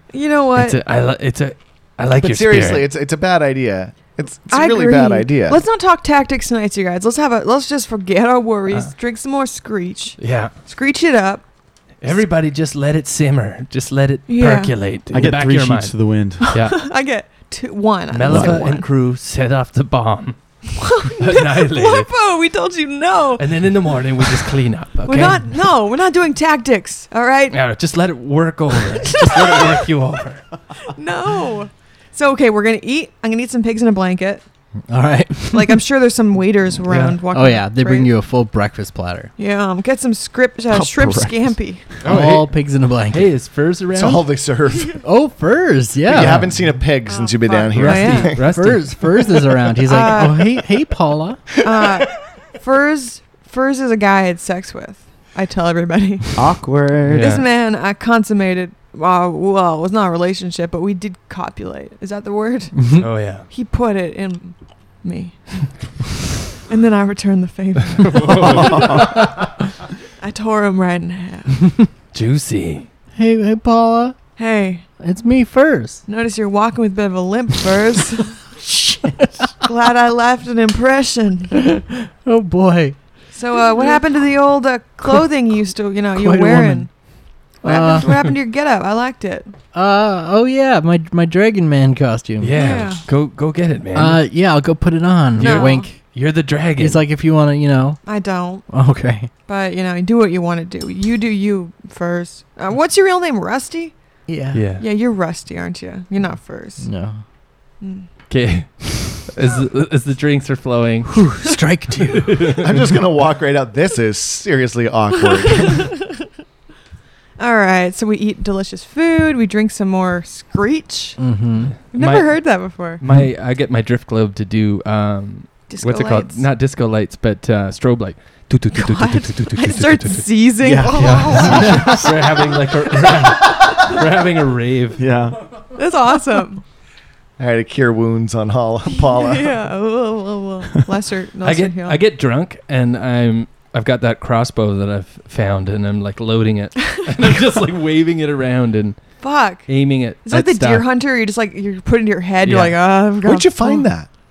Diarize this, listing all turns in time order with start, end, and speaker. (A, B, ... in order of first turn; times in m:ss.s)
0:00.1-0:00.8 A
0:00.5-0:02.9 B
0:02.2-0:05.6 C
0:04.5-0:11.4 A
0:10.2-0:10.5 B
0:12.0-0:16.8 B
0:14.3-0:14.8 A
0:15.1-0:16.5 D
0:16.4-0:18.8 A
0:18.1-0:22.1 B
0:18.2-0:18.6 D
0:20.8-0:23.5 A
0:23.4-0:25.5 B
0:25.0-0:27.6 A
0:27.5-0:30.5 B
0:28.9-0:29.8 A
0:30.8-0:34.4 A
0:34.9-0:35.8 E
0:35.5-0:38.1 A
0:36.9-0:37.2 B
0:37.3-0:39.3 E
0:39.4-0:41.8 A
0:40.7-0:41.6 D
0:42.0-0:43.3 E
0:42.0-0:42.5 B
0:43.1-0:44.3 B
0:43.9-0:45.0 C
0:45.0-0:46.7 E
0:46.1-0:48.6 C
0:47.1-0:48.3 A
0:47.7-0:49.0 B
0:47.8-0:51.4 E
0:49.8-0:50.6 A
0:51.6-1:06.0 A
0:56.4-0:57.4 D
0:57.1-0:57.4 B
1:03.0-1:03.5 B
1:06.6-1:09.4 A
1:08.0-1:09.3 B
1:08.3-1:09.1 D
1:10.2-1:11.8 A
1:12.1-1:12.9 B
1:13.2-1:14.2 E
1:14.4-1:14.8 A
1:15.0-1:16.0 E
1:16.1-1:18.5 A
1:18.6-1:19.5 E
1:19.6-1:21.7 A
1:22.2-1:23.0 E
1:23.3-1:26.9 A
1:26.1-1:26.9 E
1:27.6-1:29.5 A
1:27.6-1:28.1 E
1:28.0-1:28.3 B
1:29.7-1:32.6 E
1:32.4-1:34.2 B
1:32.5-1:33.0 A
1:33.9-1:36.0 E
1:35.4-1:37.0 B
1:35.4-1:35.9 A
1:36.8-1:38.0 E
1:38.0-1:38.7 A
1:38.7-1:39.3 E
1:39.4-1:44.0 A
1:44.3-1:44.6 E
1:44.5-1:44.8 B
1:44.8-1:46.9 A
1:46.8-1:47.2 E
1:47.8-1:48.1 A
1:48.3-1:51.3 B
1:51.1-1:52.5 E
1:52.1-1:52.7 B
1:52.6-1:55.9 C
1:55.6-1:55.9 A
1:57.4-2:01.3 A
2:01.2-2:01.7 E
2:01.8-2:15.0 B
2:01.9-2:03.0 A
2:05.7-2:06.5 A
2:08.7-2:12.4 A
2:10.6-2:12.0 D
2:15.0-2:15.4 D
2:15.7-2:16.6 A
2:17.4-2:19.5 C
2:19.1-2:22.0 A
2:21.4-2:30.8 B
2:29.2-2:29.7 A
2:30.2-2:33.8 A
2:32.4-2:32.8 B
2:33.2-2:34.1 C